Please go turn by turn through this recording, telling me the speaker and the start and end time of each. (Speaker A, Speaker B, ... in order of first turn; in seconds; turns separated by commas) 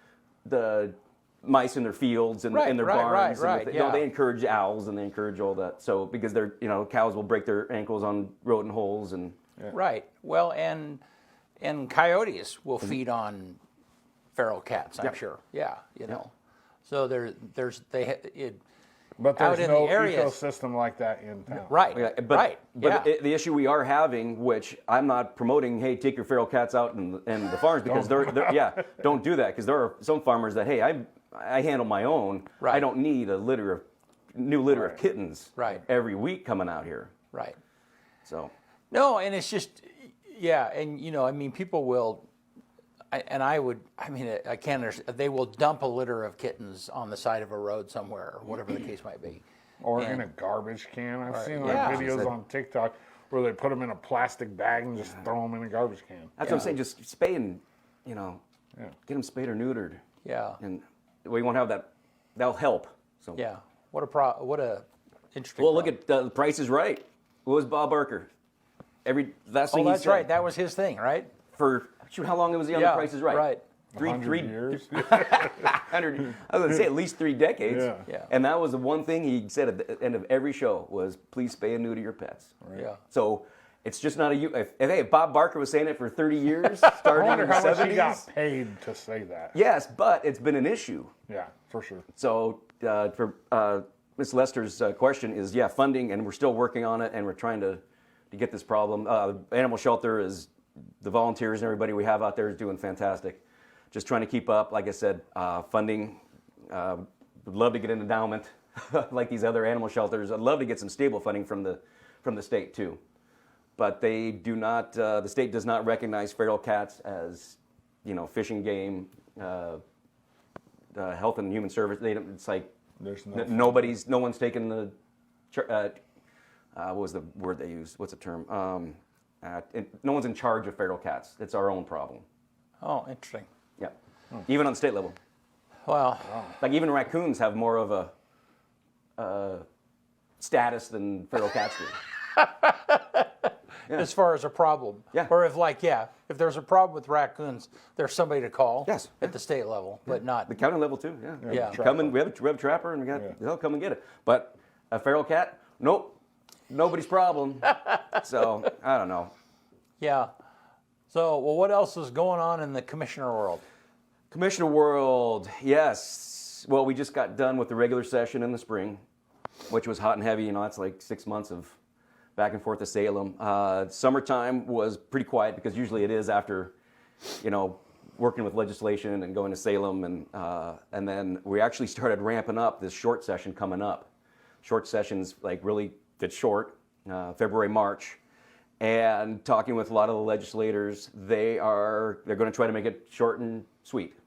Speaker A: 0.5-9.3, Speaker B: 2.5-4.0, Speaker B: 9.7-11.0, Speaker B: 11.6-13.6, Speaker B: 14.3-16.3, Speaker B: 16.9-18.6, Speaker C: 19.2-21.7, Speaker B: 19.3-20.4, Speaker B: 21.6-23.1, Speaker A: 21.9-37.1, Speaker B: 35.5-35.8, Speaker B: 37.3-37.6, Speaker A: 38.2-38.5, Speaker B: 38.9-42.3, Speaker B: 43.1-49.4, Speaker C: 49.8-56.4, Speaker B: 49.9-50.3, Speaker B: 51.3-52.3, Speaker A: 51.6-52.3, Speaker A: 56.4-58.4, Speaker B: 56.4-56.7, Speaker A: 59.0-60.0, Speaker B: 60.2-60.6, Speaker A: 60.6-63.4, Speaker B: 63.4-65.9, Speaker A: 65.6-68.3, Speaker A: 69.0-70.3, Speaker B: 69.7-71.3, Speaker A: 71.5-82.5, Speaker B: 72.7-73.6, Speaker C: 73.9-75.4, Speaker C: 77.7-78.0, Speaker C: 82.6-82.9, Speaker B: 82.7-83.0, Speaker A: 83.1-88.3, Speaker C: 87.0-89.5, Speaker A: 89.5-91.1, Speaker C: 91.3-92.0, Speaker A: 92.1-97.8, Speaker A: 98.3-100.5, Speaker A: 101.0-113.0, Speaker A: 113.8-119.8, Speaker A: 120.9-122.7, Speaker C: 123.0-123.8, Speaker A: 123.3-124.9, Speaker A: 125.5-126.0, Speaker A: 126.7-132.2, Speaker B: 132.8-133.5, Speaker A: 133.8-135.2, Speaker B: 135.8-136.6, Speaker A: 136.6-138.1, Speaker A: 139.2-139.7, Speaker A: 140.4-141.9, Speaker B: 142.3-150.5, Speaker A: 148.8-149.2, Speaker A: 150.5-156.2, Speaker C: 151.4-152.1, Speaker B: 151.4-151.8, Speaker A: 156.7-159.3, Speaker B: 160.0-160.3, Speaker B: 161.1-163.6, Speaker A: 164.3-169.0, Speaker A: 169.7-171.8, Speaker A: 172.3-176.7, Speaker A: 177.4-184.1, Speaker A: 184.6-188.2, Speaker A: 188.8-194.2